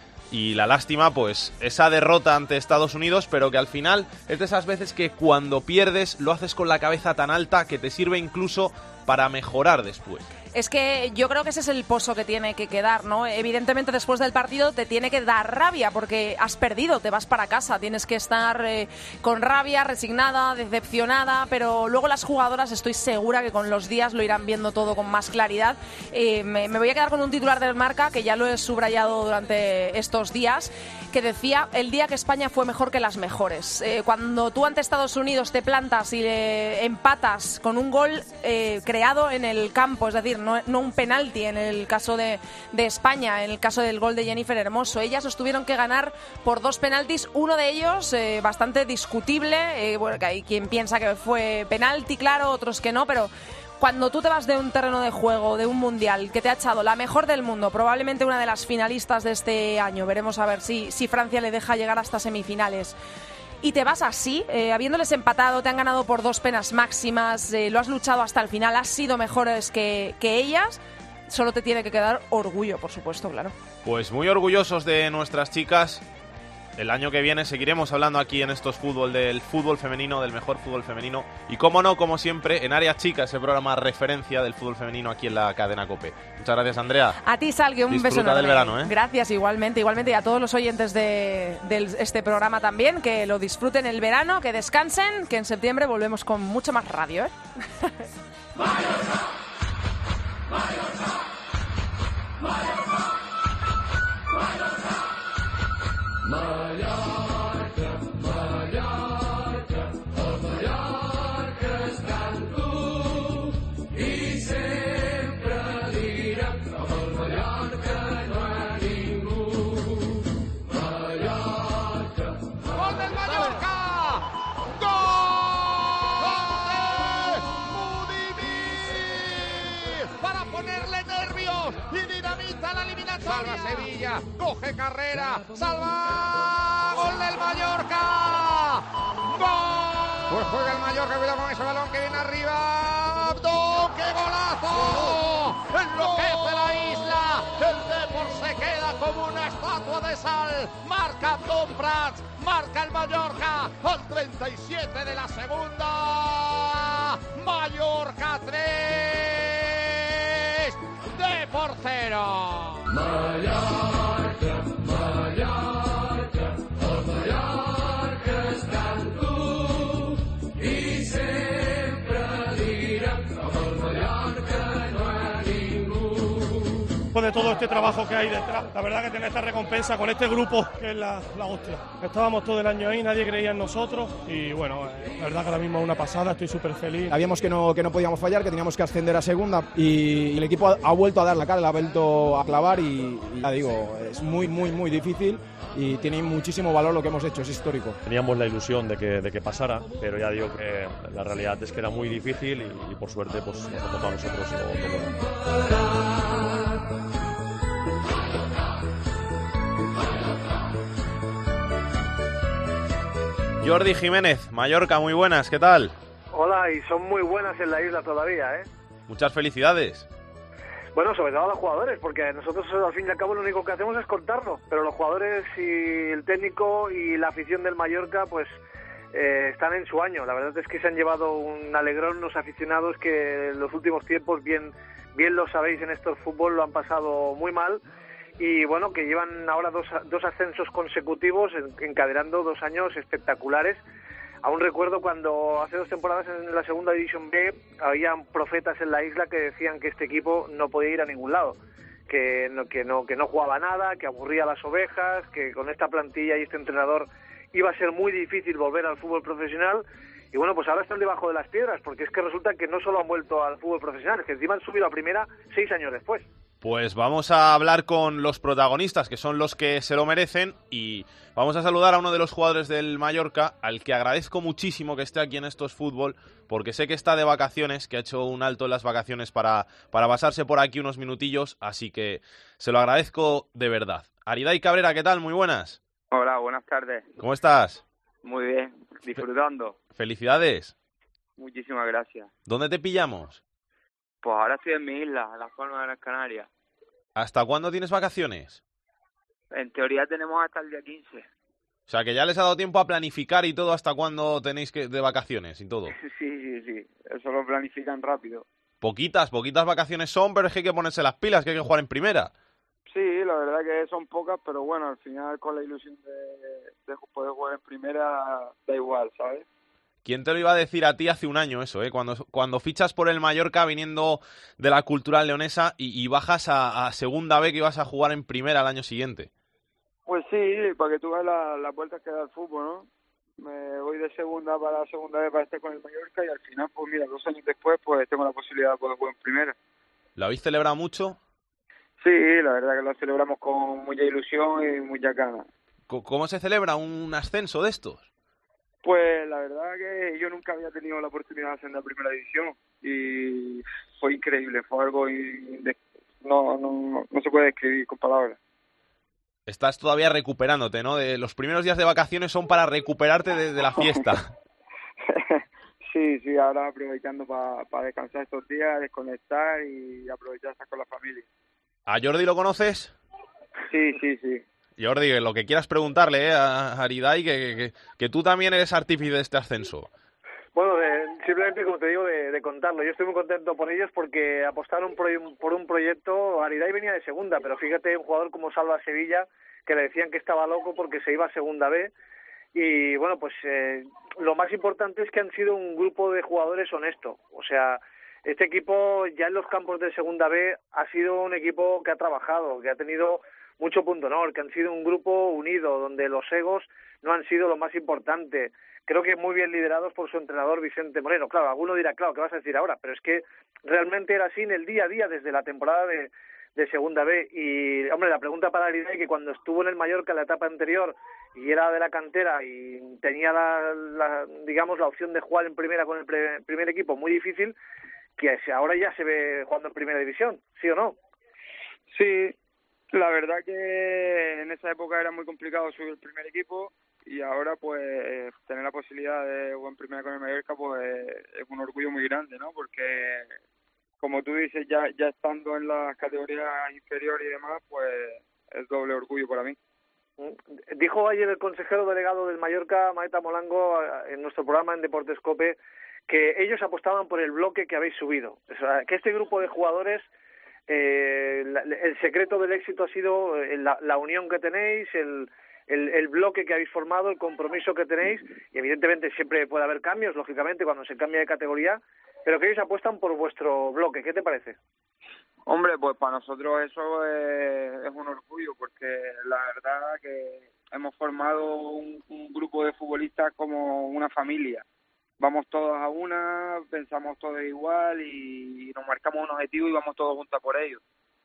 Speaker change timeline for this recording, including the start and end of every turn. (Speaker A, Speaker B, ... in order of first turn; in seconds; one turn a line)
Speaker A: 0.3-10.3
Speaker B: 10.5-63.0
Speaker B: 63.6-73.5
Speaker A: 73.8-76.0
Speaker A: 76.8-87.1
Speaker B: 87.2-97.8
Speaker A: 87.9-88.9
Speaker C: 122.7-124.2
Speaker C: 124.8-162.8
Speaker D: 177.1-187.2
Speaker E: 187.1-198.0
Speaker F: 198.0-205.2
Speaker A: 213.6-215.9
Speaker G: 216.3-218.7
Speaker A: 219.1-220.1
Speaker G: 220.9-228.5
Speaker G: 229.1-237.8
Speaker G: 238.4-243.8
Speaker G: 244.4-266.3
Speaker A: 266.6-285.8
Speaker H: 286.1-287.1
Speaker A: 287.2-287.8
Speaker H: 288.2-289.8
Speaker A: 289.9-290.7
Speaker H: 291.4-292.3
Speaker A: 292.5-293.4
Speaker H: 294.2-296.5
Speaker A: 297.1-298.6
Speaker H: 299.5-301.2
Speaker A: 301.9-305.9
Speaker H: 305.9-308.4
Speaker A: 308.8-312.3
Speaker H: 312.9-319.4
Speaker A: 320.0-329.3
Speaker H: 330.1-339.6
Speaker A: 340.2-341.2
Speaker H: 342.0-345.4
Speaker A: 345.9-348.1
Speaker H: 348.8-358.4
Speaker A: 359.5-364.3
Speaker H: 363.8-364.1
Speaker H: 365.1-371.2
Speaker A: 371.9-372.9
Speaker H: 373.7-374.4
Speaker A: 374.8-379.9
Speaker G: 380.5-391.9
Speaker G: 392.5-427.6
Speaker G: 428.2-430.9
Speaker H: 431.9-432.3
Speaker H: 432.9-443.3
Speaker H: 444.0-449.6
Speaker G: 450.2-460.0
Speaker G: 460.7-474.6
Speaker H: 475.4-484.6
Speaker H: 485.2-490.8